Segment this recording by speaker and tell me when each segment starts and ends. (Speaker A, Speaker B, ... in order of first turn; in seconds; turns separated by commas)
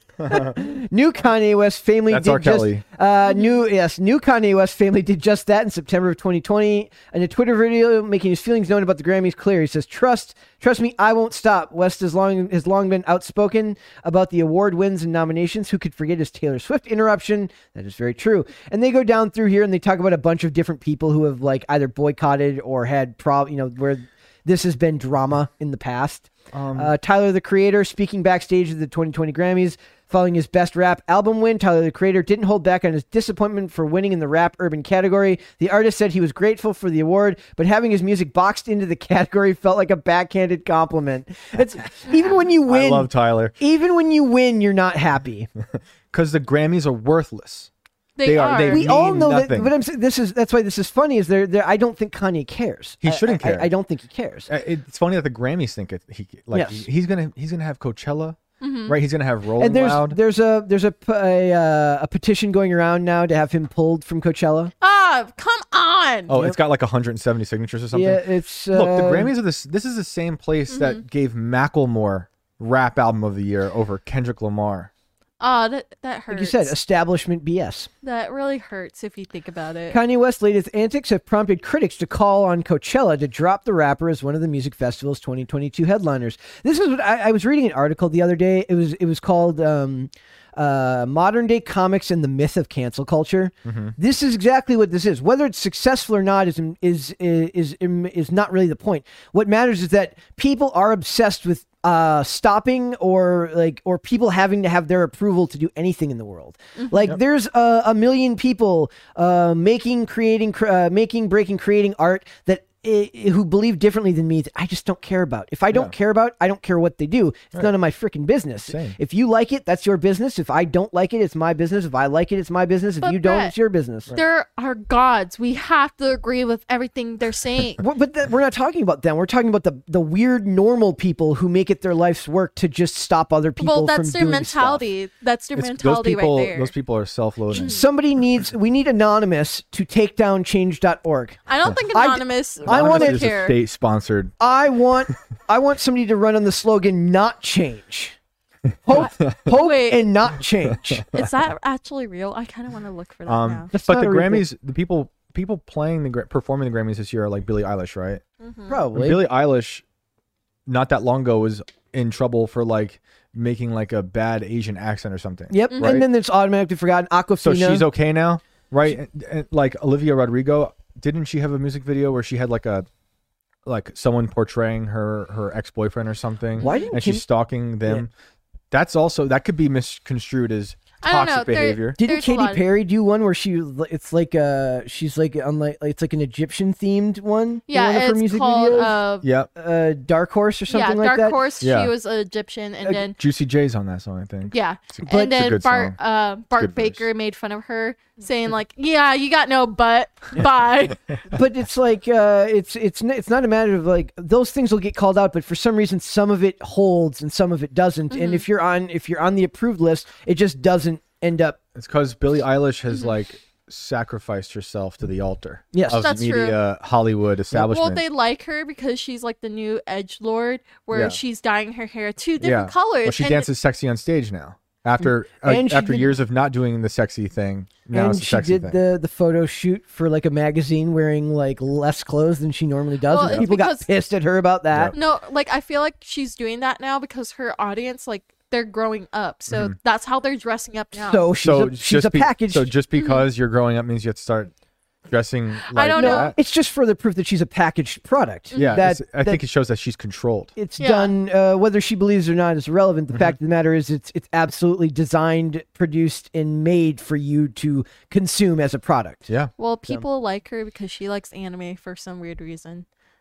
Speaker A: 0.2-45.5, Speaker B: 2.1-2.8, Speaker C: 3.3-3.5, Speaker B: 26.5-26.9, Speaker B: 42.6-43.5, Speaker B: 45.7-47.7, Speaker C: 48.2-49.0, Speaker B: 48.2-49.7, Speaker A: 48.7-54.5, Speaker B: 53.0-53.7, Speaker B: 54.5-60.2, Speaker A: 56.5-56.8, Speaker C: 58.6-59.0, Speaker A: 59.6-64.7, Speaker C: 64.8-66.3, Speaker B: 66.3-74.9, Speaker A: 66.3-66.6, Speaker A: 67.9-69.3, Speaker C: 70.7-71.0, Speaker C: 75.4-76.7, Speaker A: 76.3-77.9, Speaker C: 78.0-80.0, Speaker A: 79.9-124.1, Speaker B: 93.6-93.9, Speaker B: 118.7-119.0, Speaker C: 123.0-123.5, Speaker C: 124.1-127.8, Speaker A: 127.8-134.8, Speaker C: 133.6-136.7, Speaker B: 135.6-137.8, Speaker C: 137.5-137.8, Speaker A: 137.5-141.4, Speaker C: 141.5-143.6, Speaker A: 141.9-143.3, Speaker B: 142.6-144.3, Speaker A: 144.4-148.2, Speaker A: 148.8-151.0, Speaker B: 148.9-149.4, Speaker C: 149.0-150.1, Speaker B: 150.7-151.3, Speaker C: 151.1-153.7, Speaker B: 153.3-158.2, Speaker A: 153.7-154.4, Speaker C: 158.4-158.8, Speaker A: 158.7-159.2, Speaker B: 158.9-159.8, Speaker B: 160.7-166.0, Speaker A: 165.5-167.9, Speaker C: 165.7-166.0, Speaker B: 167.4-172.8, Speaker B: 173.6-178.1, Speaker A: 176.6-177.2, Speaker C: 176.6-176.9, Speaker B: 178.7-181.9, Speaker C: 181.0-182.6, Speaker A: 182.0-189.0, Speaker C: 187.7-189.3, Speaker B: 189.2-189.5, Speaker A: 189.6-191.4, Speaker C: 190.7-193.2, Speaker B: 191.6-191.9, Speaker B: 193.1-195.9, Speaker C: 194.5-201.0, Speaker B: 196.6-197.0, Speaker A: 201.3-211.6, Speaker C: 208.1-208.4, Speaker B: 211.7-218.0, Speaker A: 215.7-216.1, Speaker C: 215.9-216.6, Speaker C: 217.5-223.5, Speaker B: 220.9-221.2, Speaker B: 222.4-228.8, Speaker A: 225.4-226.1, Speaker A: 227.9-234.9, Speaker C: 233.1-233.9, Speaker B: 233.2-233.5, Speaker C: 234.9-241.2, Speaker B: 239.5-239.7, Speaker A: 240.9-242.7, Speaker B: 241.3-244.5, Speaker C: 242.9-243.2, Speaker B: 245.1-246.3, Speaker C: 245.7-246.3, Speaker A: 245.9-249.4, Speaker C: 248.5-248.8, Speaker B: 248.6-250.5, Speaker A: 250.6-259.3, Speaker C: 250.8-251.1, Speaker C: 259.6-262.9